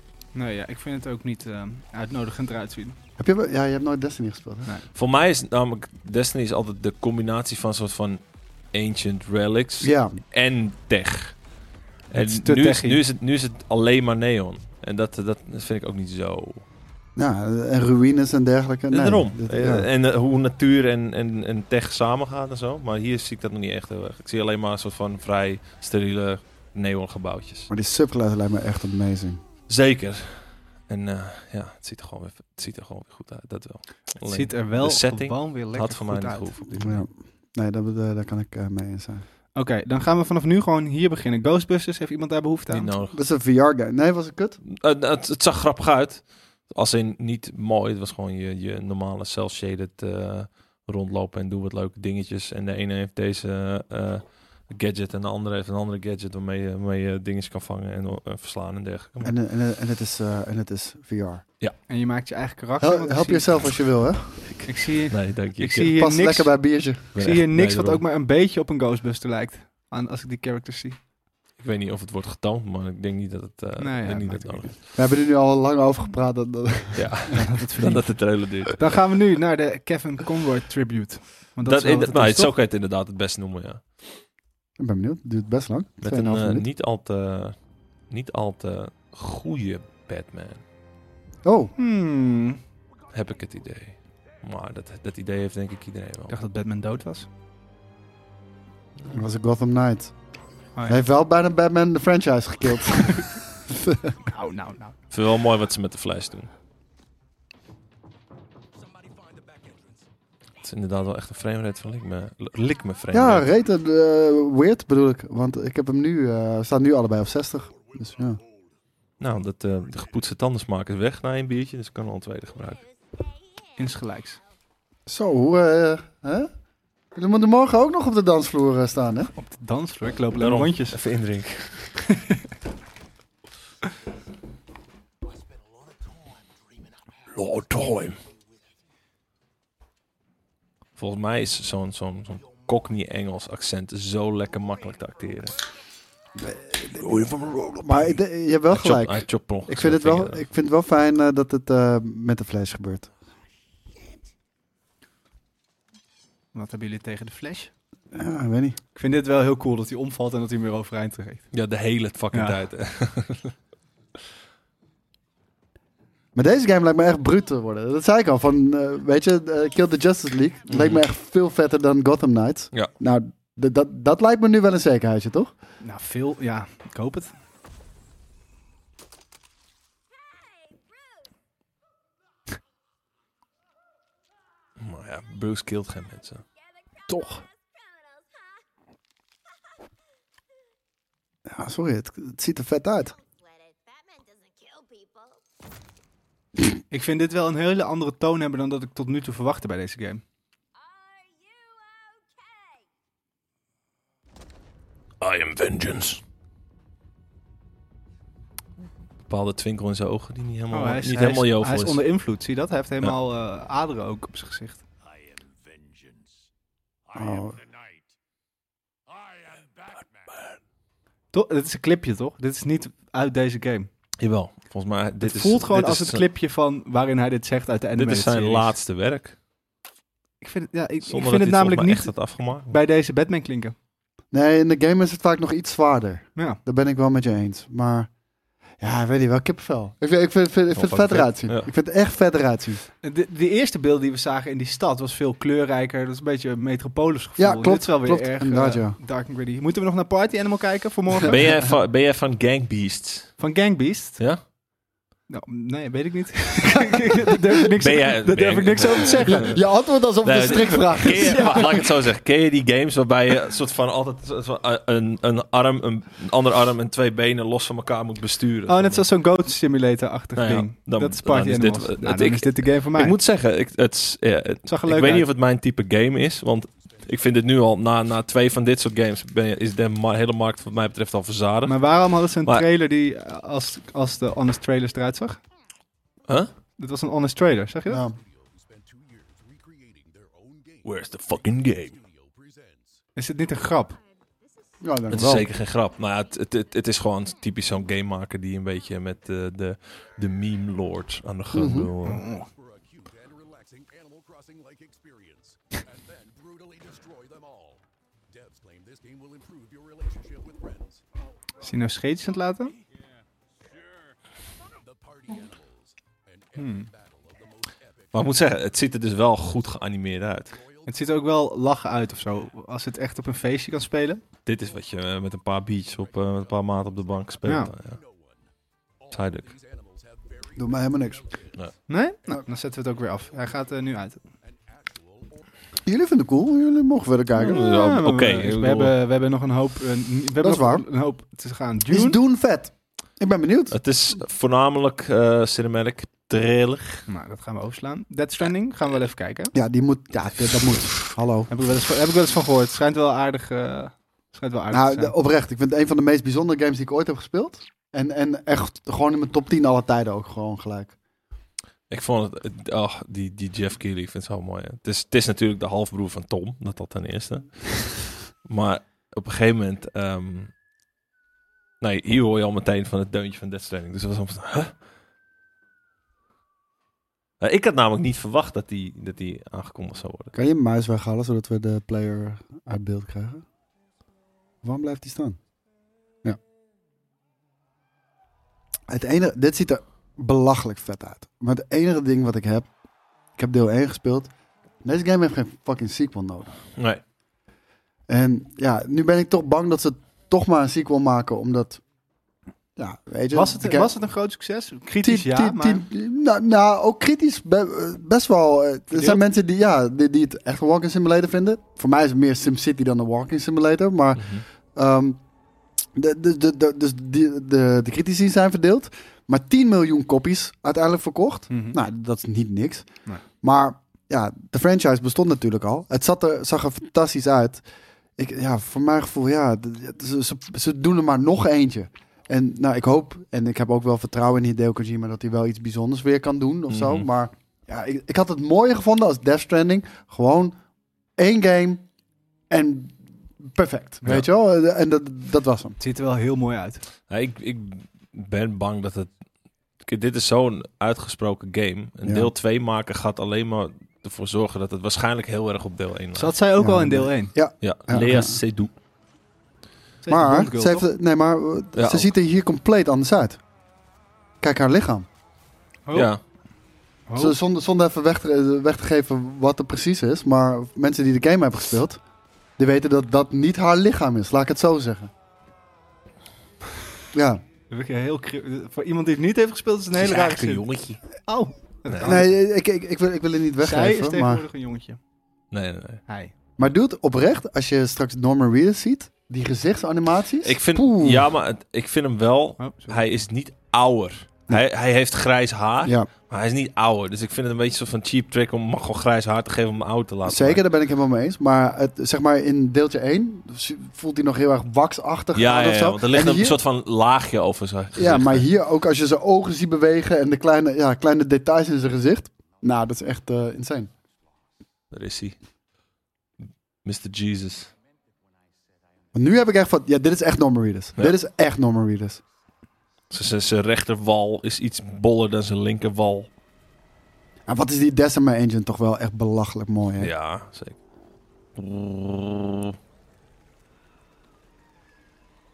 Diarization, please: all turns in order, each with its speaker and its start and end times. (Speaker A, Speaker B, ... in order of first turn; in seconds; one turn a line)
Speaker A: 0.3-3.0
Speaker B: 3.2-4.7
Speaker C: 4.9-11.4
Speaker B: 9.8-10.2
Speaker C: 12.1-16.6
Speaker A: 12.1-13.0
Speaker B: 17.2-19.9
Speaker C: 18.9-27.7
Speaker B: 27.7-29.4
Speaker C: 29.7-37.0
Speaker A: 34.2-36.7
Speaker B: 36.8-39.2
Speaker A: 39.5-42.9
Speaker C: 42.7-43.2
Speaker B: 43.1-44.6
Speaker C: 44.7-59.3
Speaker B: 59.2-61.4
Speaker A: 61.9-63.6
Speaker B: 62.8-64.6
Speaker A: 64.7-71.0
Speaker C: 65.1-66.0
Speaker B: 66.0-67.1
Speaker C: 67.1-68.0
Speaker C: 71.6-74.8
Speaker A: 73.8-74.7
Speaker B: 75.0-77.4
Speaker C: 77.0-79.0
Speaker A: 77.4-82.5
Speaker C: 81.7-84.1
Speaker B: 84.8-86.7
Speaker C: 86.0-87.6
Speaker C: 88.1-90.6
Speaker B: 91.4-91.7
Speaker A: 91.8-92.6
Speaker C: 93.1-96.3
Speaker A: 96.3-97.3
Speaker B: 99.1-100.2
Speaker A: 100.8-101.0
Speaker B: 100.9-104.2
Speaker A: 104.3-105.0
Speaker C: 105.1-106.5
Speaker D: 109.0-109.9
Speaker C: 110.6-113.5
Speaker B: 113.1-118.4
Speaker D: 117.7-118.7
Speaker C: 119.2-122.8
Speaker E: 122.5-124.5
Speaker A: 123.8-124.4
Speaker B: 125.1-126.5
Speaker B: 127.2-129.3
Speaker A: 129.3-131.0
Speaker C: 130.3-132.0
Speaker A: 132.1-132.4
Speaker C: 137.3-138.2
Speaker C: 141.0-145.7
Speaker B: 146.4-153.1
Speaker C: 147.0-148.2
Speaker C: 148.7-150.4
Speaker A: 156.5-157.7
Speaker B: 158.1-158.8
Speaker A: 158.9-161.5
Speaker C: 161.5-163.5
Speaker A: 162.3-162.6
Speaker B: 166.3-175.5
Speaker C: 170.7-171.0
Speaker A: 175.8-177.3
Speaker E: 180.1-181.3
Speaker C: 184.8-186.4
Speaker E: 186.6-188.7
Speaker B: 191.5-193.1
Speaker E: 193.0-195.4
Speaker A: 196.9-200.2
Speaker E: 200.8-202.9
Speaker C: 205.2-206.2
Speaker C: 209.3-212.0
Speaker A: 210.7-214.8
Speaker D: 215.1-216.3
Speaker B: 217.2-217.6
Speaker A: 221.3-223.9
Speaker C: 224.2-226.2
Speaker A: 225.2-228.7
Speaker C: 228.0-229.4
Speaker A: 230.4-233.8
Speaker C: 231.1-232.8
Speaker B: 234.3-238.1
Speaker B: 238.8-242.8
Speaker C: 240.7-241.7
Speaker A: 243.0-251.4
Speaker B: 247.4-249.0
Speaker C: 251.3-253.5
Speaker A: 253.4-254.2
Speaker A: 255.3-259.6
Speaker C: 257.8-269.1
Speaker B: 259.3-261.9
Speaker A: 268.7-273.2
Speaker C: 270.4-281.8
Speaker A: 274.7-275.3
Speaker A: 281.6-285.4
Speaker C: 286.3-286.5
Speaker A: 286.8-288.0
Speaker B: 287.9-288.2
Speaker D: 288.3-292.9
Speaker C: 290.8-292.0
Speaker A: 293.2-294.0
Speaker E: 293.9-295.4
Speaker B: 294.8-295.5
Speaker C: 295.1-302.2
Speaker E: 296.0-296.4
Speaker B: 301.5-301.9
Speaker A: 302.1-302.5
Speaker D: 302.3-311.0
Speaker A: 311.6-312.8
Speaker D: 314.8-318.3
Speaker A: 316.6-316.9
Speaker C: 318.1-320.6
Speaker D: 320.6-321.0
Speaker A: 320.9-324.2
Speaker C: 324.5-328.0
Speaker D: 325.9-328.4
Speaker A: 327.4-327.7
Speaker D: 329.0-331.7
Speaker C: 329.1-329.5
Speaker B: 330.6-331.3
Speaker A: 331.9-334.2
Speaker D: 334.4-335.4
Speaker B: 335.9-337.7
Speaker A: 337.4-342.2
Speaker C: 337.4-338.9
Speaker B: 340.4-340.9
Speaker B: 341.9-343.8
Speaker C: 343.7-347.1
Speaker A: 347.1-349.5
Speaker B: 349.5-351.5
Speaker A: 351.5-355.1
Speaker B: 354.7-360.9
Speaker C: 361.9-370.5
Speaker C: 371.8-374.8
Speaker C: 377.4-380.3
Speaker B: 380.3-383.4
Speaker B: 384.6-385.4
Speaker B: 388.9-392.7
Speaker B: 393.4-394.3
Speaker B: 394.8-396.5
Speaker C: 396.8-397.0
Speaker B: 398.1-401.8
Speaker B: 402.8-403.9
Speaker A: 403.3-405.8
Speaker B: 405.0-415.2
Speaker A: 408.9-409.2
Speaker C: 414.2-414.4
Speaker B: 415.9-427.6
Speaker A: 421.5-421.8
Speaker B: 428.2-440.6
Speaker C: 436.7-437.1
Speaker B: 441.2-441.9
Speaker B: 442.5-445.8
Speaker A: 445.8-446.8
Speaker C: 447.1-449.1
Speaker C: 449.8-456.4
Speaker B: 452.0-452.3
Speaker A: 456.1-457.4
Speaker B: 456.6-458.4
Speaker C: 457.6-458.7
Speaker A: 460.0-460.9
Speaker B: 460.1-463.4
Speaker C: 461.8-462.1
Speaker B: 464.4-465.1
Speaker A: 465.9-466.1
Speaker C: 465.9-466.2
Speaker A: 467.1-467.4
Speaker B: 467.2-472.0
Speaker B: 472.6-475.1
Speaker B: 477.1-477.4
Speaker A: 477.7-482.3
Speaker C: 479.9-481.0
Speaker C: 481.9-482.2
Speaker B: 482.0-484.4
Speaker A: 483.6-485.0
Speaker C: 485.5-486.0
Speaker A: 486.1-486.3
Speaker B: 486.6-491.3
Speaker C: 490.4-500.6
Speaker A: 492.6-493.0
Speaker B: 495.8-496.1
Speaker B: 500.2-506.6
Speaker C: 505.4-508.5
Speaker B: 508.0-513.9
Speaker C: 514.9-515.4
Speaker C: 516.8-517.7
Speaker B: 519.1-522.2
Speaker C: 523.1-526.3
Speaker B: 527.5-530.1
Speaker C: 530.0-530.8
Speaker C: 531.6-532.8